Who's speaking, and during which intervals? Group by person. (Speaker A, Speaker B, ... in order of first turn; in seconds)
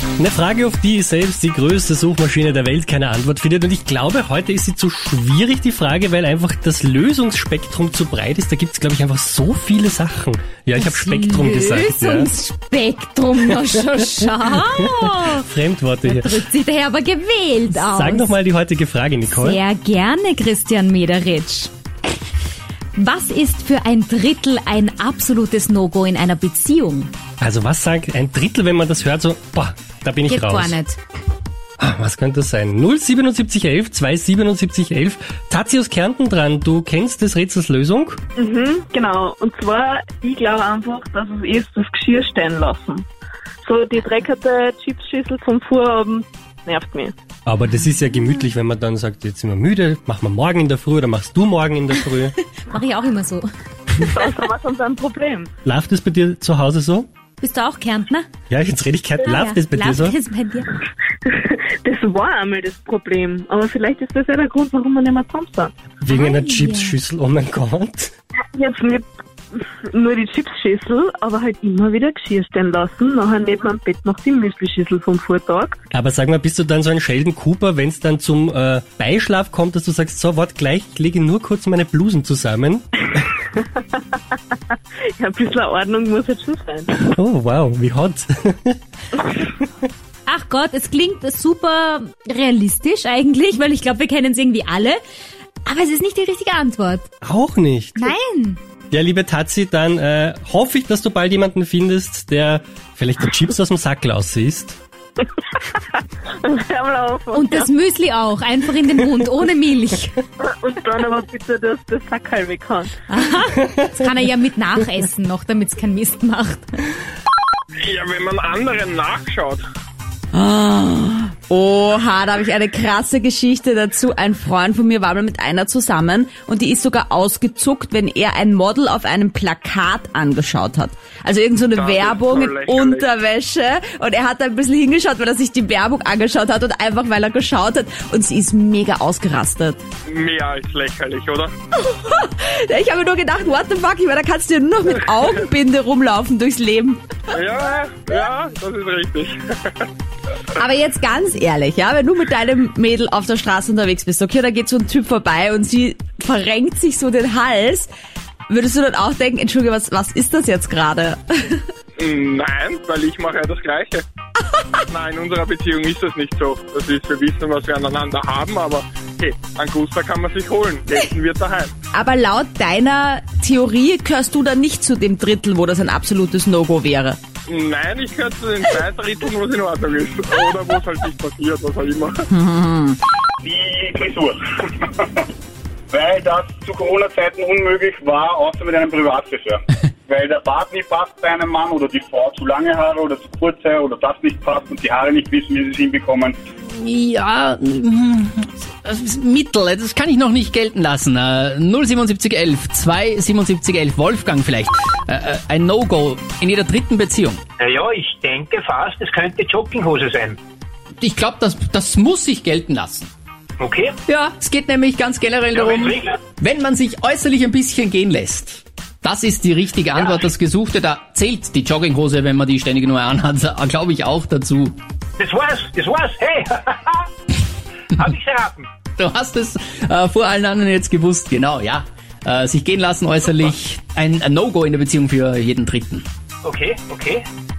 Speaker A: 0.2-12.3, 14.2-16.4, 17.7-19.6, 27.4-30.8, 31.8-38.2, 47.5-52.4, 55.6-57.1, 58.5-60.2, 66.0-68.1, 75.9-83.0, 87.1-88.8, 97.2-98.1, 98.9-104.8
Speaker B: 10.8-15.5, 16.1-18.3, 19.4-21.7, 23.0-27.1, 30.3-31.0, 52.6-53.5, 57.4-58.3, 59.2-60.8, 66.1-67.0, 90.3-95.0, 95.7-97.0, 98.0-98.6, 107.3-110.2, 113.1-116.7
Speaker C: 38.4-43.1, 43.6-47.1, 54.0-55.5, 61.3-65.7, 68.5-75.8, 83.6-84.4, 85.2-87.1, 106.4-107.7, 110.4-113.0
Speaker D: 117.8-119.6, 131.8-133.1, 140.1-141.5, 147.3-149.9, 162.0-164.0, 164.9-171.7, 177.5-182.3
Speaker E: 120.3-139.8, 141.8-147.2, 150.6-157.9, 158.5-161.6, 171.9-177.2, 182.3-183.0
Speaker F: 183.4-184.2, 185.9-186.9, 187.5-188.5, 190.1-190.9
Speaker G: 188.4-189.5, 207.7-210.3, 213.6-213.9, 225.4-226.4, 228.2-228.6, 236.6-237.2
Speaker H: 196.7-207.4, 211.0-213.1, 214.1-224.8, 229.0-236.1